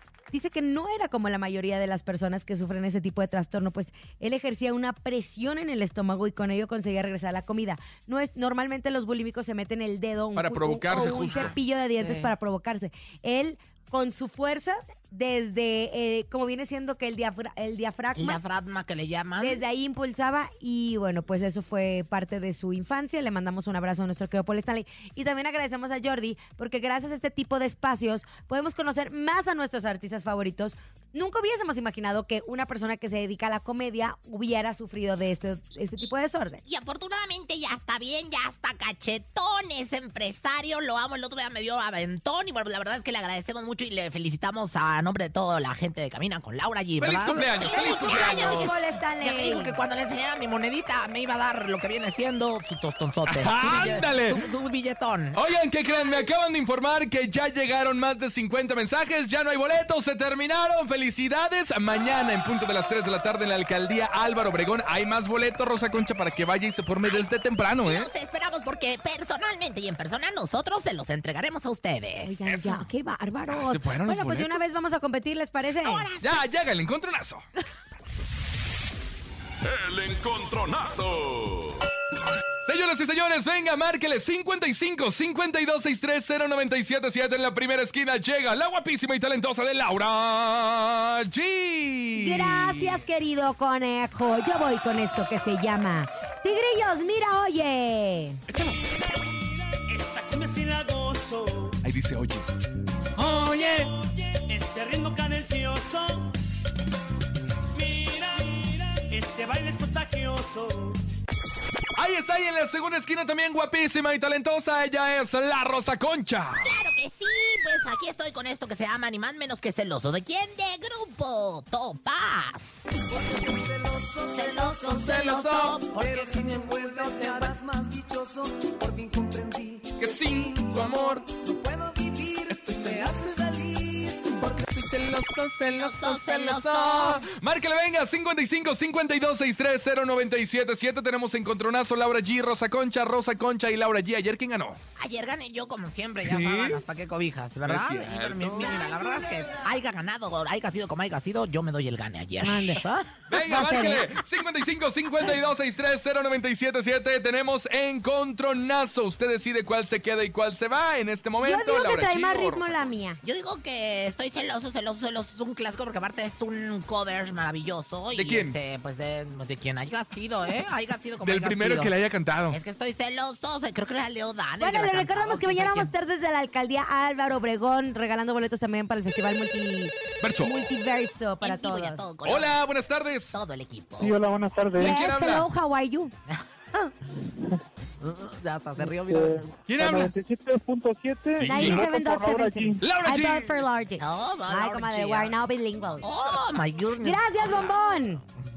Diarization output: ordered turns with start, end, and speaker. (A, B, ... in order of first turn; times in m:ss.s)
0:00.3-0:18.4 A
0:10.4-0:11.6 B
0:10.9-0:12.3 C
0:18.1-0:19.6 C
0:19.4-0:36.6 A
0:36.6-0:55.4 C
0:47.0-0:48.7 B
0:47.6-0:49.7 A
0:53.3-0:54.4 B
0:55.4-1:08.1 B
1:07.8-1:12.4 C
1:12.2-1:16.1 A
1:12.5-1:12.8 B
1:13.5-1:14.7 B
1:15.8-1:16.6 C
1:16.2-1:17.4 B
1:19.6-1:21.8 D
1:22.6-1:33.0 B
1:32.1-1:38.4 A
1:38.5-1:38.8 B
1:38.7-1:41.8 E
1:41.8-1:42.5 B
1:43.2-1:43.9 B
1:43.4-1:46.3 E
1:47.7-1:51.0 E
1:52.0-1:56.8 B
1:56.6-2:02.9 C
2:03.1-2:05.1 F
2:04.3-2:07.6 C
2:04.9-2:05.8 B
2:05.8-2:14.6 F
2:10.0-2:11.3 B
2:12.5-2:13.1 B
2:14.6-2:24.8 B
2:15.7-2:17.2 C
2:25.0-2:33.1 C
2:26.2-2:26.8 B
2:27.6-2:28.8 B
2:28.7-2:29.5 F
2:32.4-2:32.8 A
2:33.3-2:42.9 B
2:33.4-2:34.0 A
2:41.4-2:43.2 A
2:43.2-2:51.9 C
2:48.1-2:48.6 B
2:51.2-2:52.6 B
2:52.5-2:55.9 C
2:54.6-3:02.0 A
3:00.2-3:00.6 B
3:01.4-3:02.6 C
3:02.2-3:03.4 B
3:03.3-3:04.2 C
3:04.0-3:05.0 G
3:04.7-3:05.4 B
3:04.8-3:06.1 A
3:06.3-3:06.9 C
3:08.0-3:09.4 C
3:08.8-3:12.8 G
3:09.6-3:10.1 B
3:11.4-3:11.9 B
3:11.4-3:16.1 A
3:12.8-3:13.6 B
3:14.0-3:15.4 C
3:16.0-3:17.8 C
3:17.0-3:18.2 A